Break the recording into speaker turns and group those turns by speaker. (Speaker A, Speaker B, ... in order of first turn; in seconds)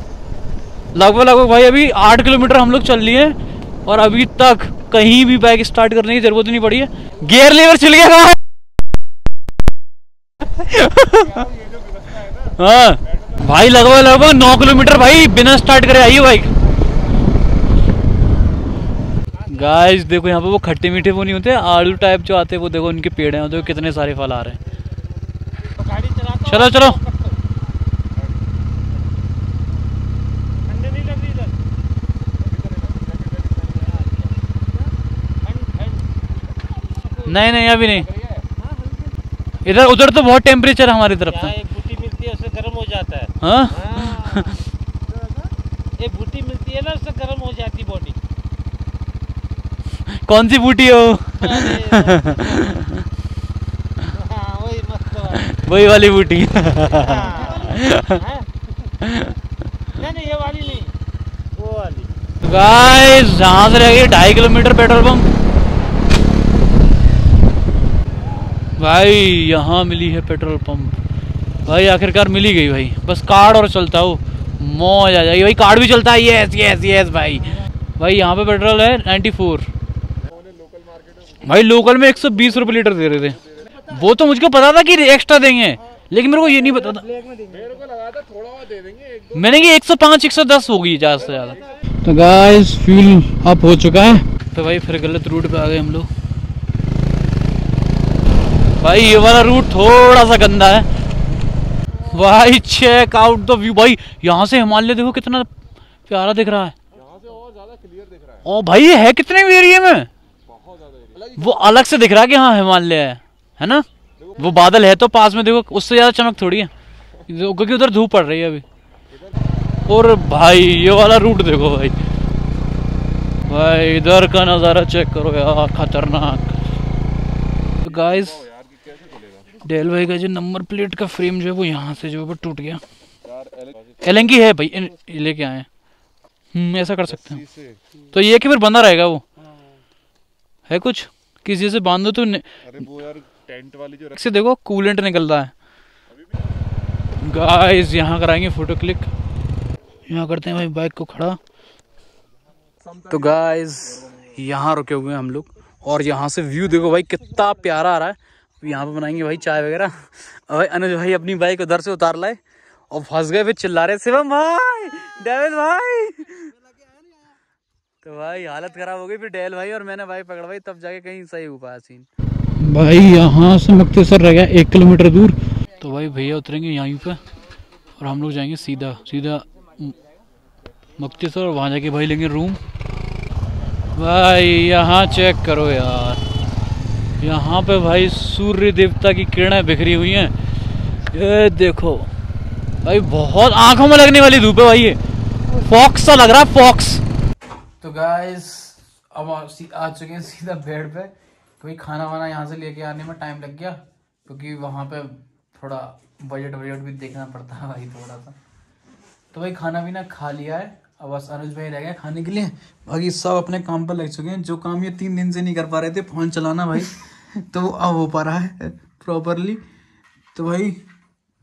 Speaker A: 0.9-8.4, 10.4-11.5, 12.2-16.5, 19.4-24.6, 26.4-27.0, 37.2-38.1, 39.6-41.5, 43.4-44.6, 50.1-53.0, 55.3-58.2, 59.0-59.4, 62.4-65.3, 68.8-71.0, 71.6-79.7, 81.4-87.2, 89.3-96.1, 98.8-100.9, 101.9-105.5, 106.0-106.8, 108.4-110.1, 111.3-116.7, 117.2-118.6, 119.9-122.0, 123.4-126.6, 127.8-128.5, 129.5-132.8, 134.0-135.7, 136.5-137.5, 138.0-139.2, 140.7-142.9, 144.0-145.5, 147.1-149.1, 150.1-151.4, 153.0-166.5, 168.0-177.2, 178.0-180.0, 181.0-182.6, 183.9-186.2, 187.2-190.3, 191.0-192.1, 192.8-197.0, 197.8-208.4, 209.3-219.6, 220.3-220.8
Speaker B: 25.7-27.4, 30.7-31.6, 33.6-34.3, 35.4-36.1, 36.9-37.2, 41.3-44.6, 46.0-48.2, 51.4-52.7, 54.0-58.5, 59.9-60.9, 61.5-62.1
Speaker C: 80.8-81.1, 87.2-89.2, 107.1-108.4, 128.8-129.4, 142.9-144.0